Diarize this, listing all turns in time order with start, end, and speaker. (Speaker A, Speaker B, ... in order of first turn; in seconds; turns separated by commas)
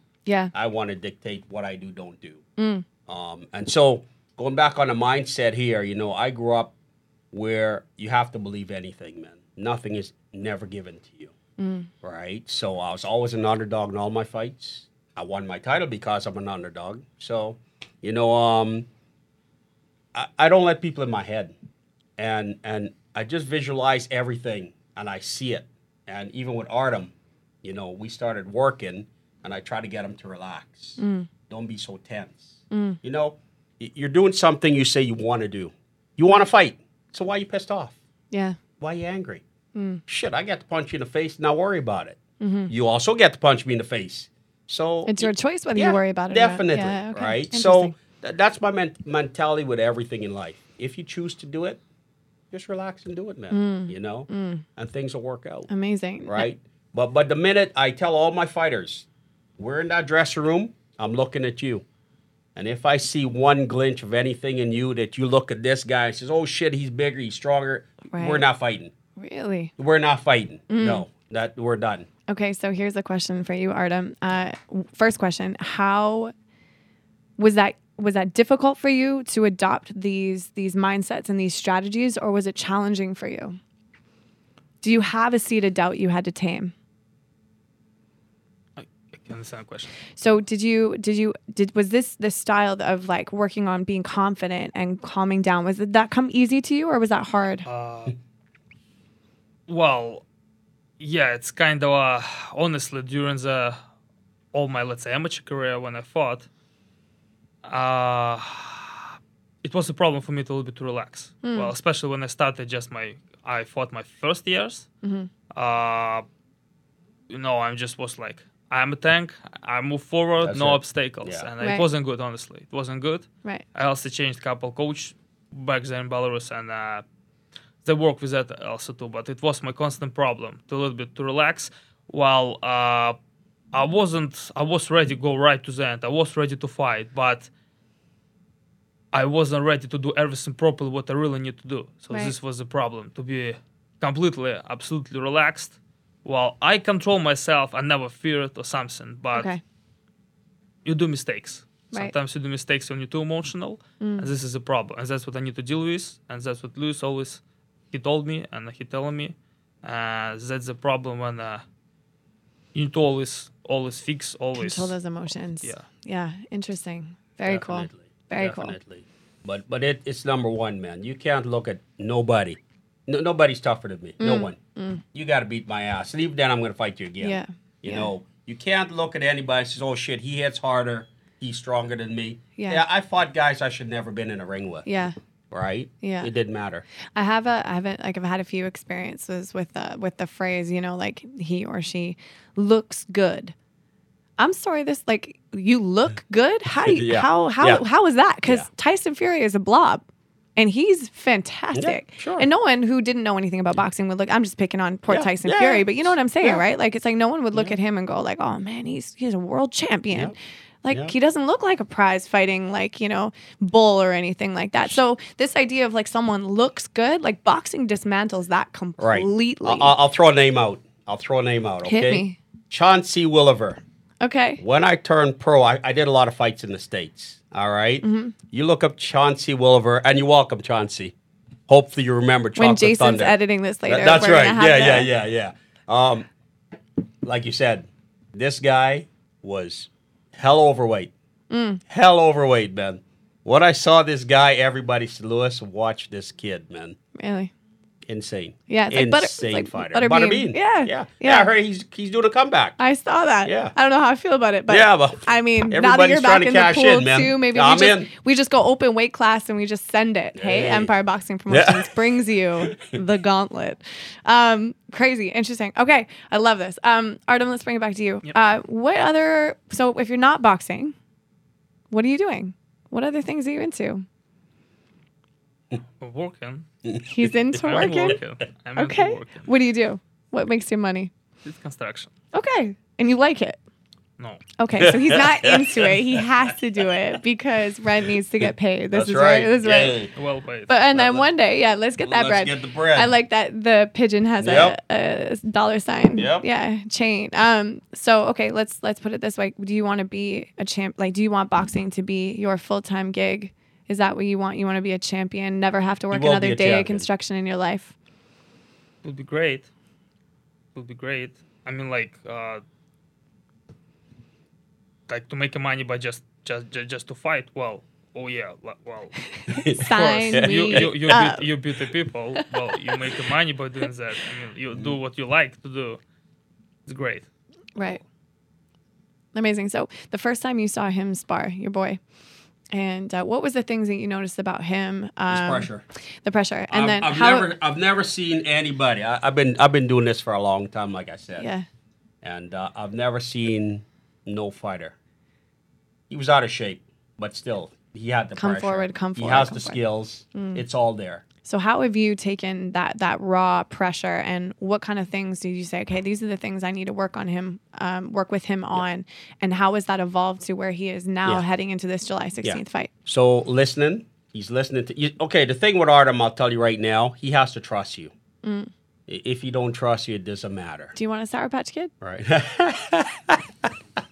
Speaker A: 0.2-0.5, Speaker B: 0.5-2.4, Speaker A: 2.6-2.8, Speaker B: 3.1-6.7, Speaker B: 7.3-11.3, Speaker A: 11.6-11.9, Speaker B: 12.0-18.9, Speaker B: 20.1-21.5, Speaker B: 22.2-27.1, Speaker B: 27.6-38.0, Speaker A: 31.0-31.3, Speaker A: 32.7-33.0, Speaker A: 38.3-38.6, Speaker B: 38.8-39.4, Speaker A: 39.7-40.0, Speaker B: 40.1-51.8, Speaker A: 42.4-42.7, Speaker A: 45.0-47.9, Speaker B: 52.5-55.7, Speaker A: 53.5-54.6, Speaker A: 55.7-56.4, Speaker B: 56.2-59.0, Speaker B: 59.6-61.8, Speaker B: 62.5-68.9, Speaker A: 68.1-68.4, Speaker A: 69.2-69.7, Speaker B: 69.8-72.1, Speaker A: 70.7-71.0, Speaker A: 72.3-76.3, Speaker A: 77.4-83.6, Speaker A: 84.8-86.7, Speaker C: 88.8-90.0, Speaker A: 90.2-97.7, Speaker C: 97.7-98.2, Speaker C: 99.7-100.2, Speaker C: 101.0-103.8, Speaker C: 104.5-106.5, Speaker C: 107.6-114.9, Speaker A: 111.4-111.7, Speaker A: 115.0-115.3, Speaker C: 115.5-116.2, Speaker C: 117.3-127.0, Speaker B: 120.4-121.5, Speaker C: 127.8-133.2, Speaker C: 133.7-137.5, Speaker C: 139.1-149.5, Speaker A: 149.3-149.6, Speaker C: 150.8-161.6, Speaker A: 154.0-154.3, Speaker C: 162.7-164.9, Speaker A: 164.6-168.7, Speaker B: 167.4-174.6, Speaker A: 174.2-175.0, Speaker B: 175.1-184.9, Speaker A: 177.2-178.1, Speaker A: 184.8-185.2, Speaker B: 185.5-186.8, Speaker A: 186.0-186.3, Speaker A: 187.2-193.5, Speaker A: 194.4-200.0, Speaker B: 196.9-197.8, Speaker A: 200.6-219.9, Speaker B: 201.7-202.5, Speaker B: 205.1-206.6, Speaker B: 207.5-207.8, Speaker B: 219.0-223.8, Speaker A: 221.8-222.4, Speaker A: 224.2-224.6, Speaker B: 224.6-231.1, Speaker A: 228.0-228.3, Speaker B: 231.7-236.3, Speaker A: 232.6-235.1, Speaker B: 237.2-241.1, Speaker A: 241.5-241.8, Speaker B: 241.9-247.0, Speaker A: 247.2-247.5, Speaker B: 248.1-252.8, Speaker A: 248.7-251.5, Speaker A: 252.8-270.9, Speaker B: 253.4-253.7, Speaker B: 254.7-258.1, Speaker B: 260.4-260.9, Speaker B: 261.5-262.9, Speaker A: 271.9-274.1, Speaker C: 276.0-276.7, Speaker B: 276.8-278.1, Speaker A: 277.0-278.2, Speaker C: 277.6-279.5, Speaker A: 278.8-281.1, Speaker C: 281.4-282.1, Speaker A: 282.3-283.6, Speaker A: 284.6-290.1, Speaker B: 284.8-286.2, Speaker B: 288.9-290.1, Speaker C: 290.1-290.7, Speaker A: 290.7-307.9, Speaker B: 290.9-291.3, Speaker B: 292.0-293.1, Speaker B: 294.4-294.8, Speaker B: 296.2-296.4, Speaker B: 306.1-307.1, Speaker C: 309.0-309.7, Speaker C: 310.7-312.6, Speaker C: 315.1-326.0, Speaker B: 319.5-321.3, Speaker A: 319.6-321.4, Speaker A: 322.4-323.1, Speaker C: 326.9-327.2, Speaker A: 329.3-332.0, Speaker A: 332.7-335.7, Speaker B: 335.3-335.8, Speaker A: 336.2-337.5, Speaker B: 336.7-341.5, Speaker A: 341.4-341.6, Speaker B: 342.2-344.9, Speaker B: 346.1-351.2, Speaker A: 348.4-349.8, Speaker A: 350.3-350.6, Speaker A: 351.4-362.9, Speaker B: 362.4-368.1, Speaker A: 368.4-368.7, Speaker B: 369.1-370.9, Speaker A: 370.9-371.9, Speaker B: 372.0-373.7